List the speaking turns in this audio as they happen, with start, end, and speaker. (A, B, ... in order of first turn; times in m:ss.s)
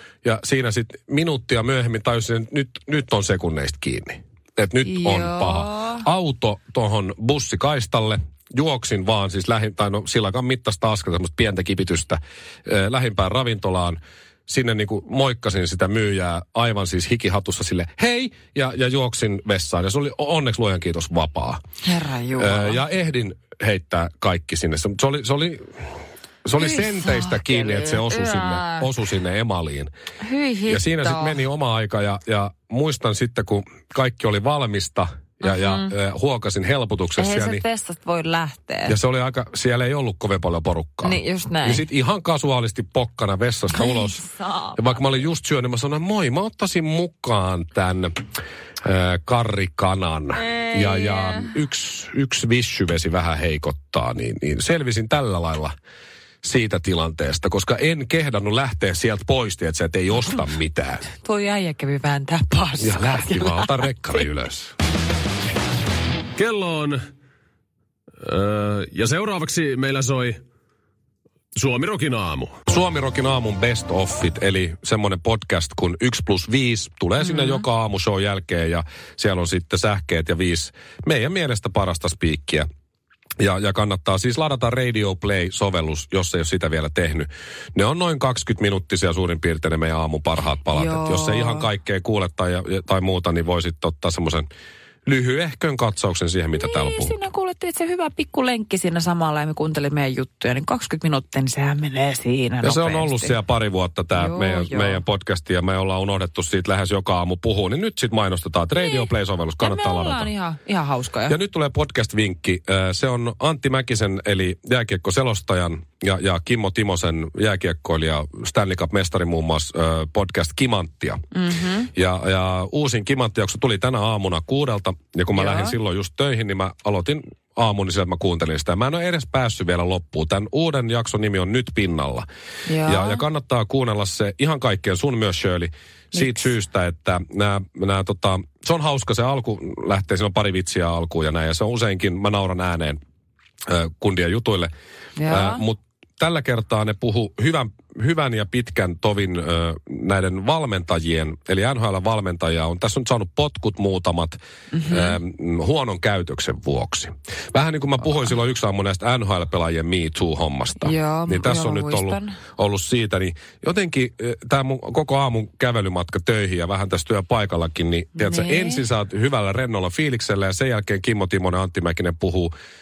0:00.2-0:21.6 A
0:04.8-0:06.0 B
0:21.8-0:22.8 B
0:22.4-0:25.9 A
0:26.4-0:29.9 A
0:26.6-0:28.9 B
0:30.2-0:31.4 B
0:30.7-0:37.6 A
0:35.4-0:35.9 B
0:37.2-0:39.0 B
0:38.9-0:44.2 A
0:41.0-0:41.8 B
0:43.7-0:45.0 B
0:44.8-0:48.1 A
0:48.8-0:55.7 A
0:50.4-0:51.5 B
0:56.4-1:01.1 A
1:01.2-1:04.2 B
1:02.8-1:04.7 A
1:06.4-1:07.0 C
1:08.2-1:10.4 C
1:11.5-1:12.6 C
1:12.7-1:22.7 A
1:17.2-1:17.6 B
1:23.4-1:34.5 A
1:30.7-1:31.7 B
1:35.0-1:37.1 A
1:36.5-1:43.3 B
1:42.6-1:50.3 A
1:44.1-1:45.0 B
1:48.7-1:49.1 B
1:49.6-1:51.4 B
1:51.3-2:01.2 A
2:01.3-2:01.9 B
2:01.9-2:12.2 A
2:05.3-2:05.7 B
2:12.6-2:13.2 B
2:12.8-2:23.0 A
2:16.1-2:16.5 B
2:23.7-2:24.7 A
2:25.2-2:25.6 B
2:25.2-2:34.4 A
2:34.7-2:35.2 B
2:34.9-2:52.5 A
2:40.8-2:42.4 B
2:48.2-2:48.8 B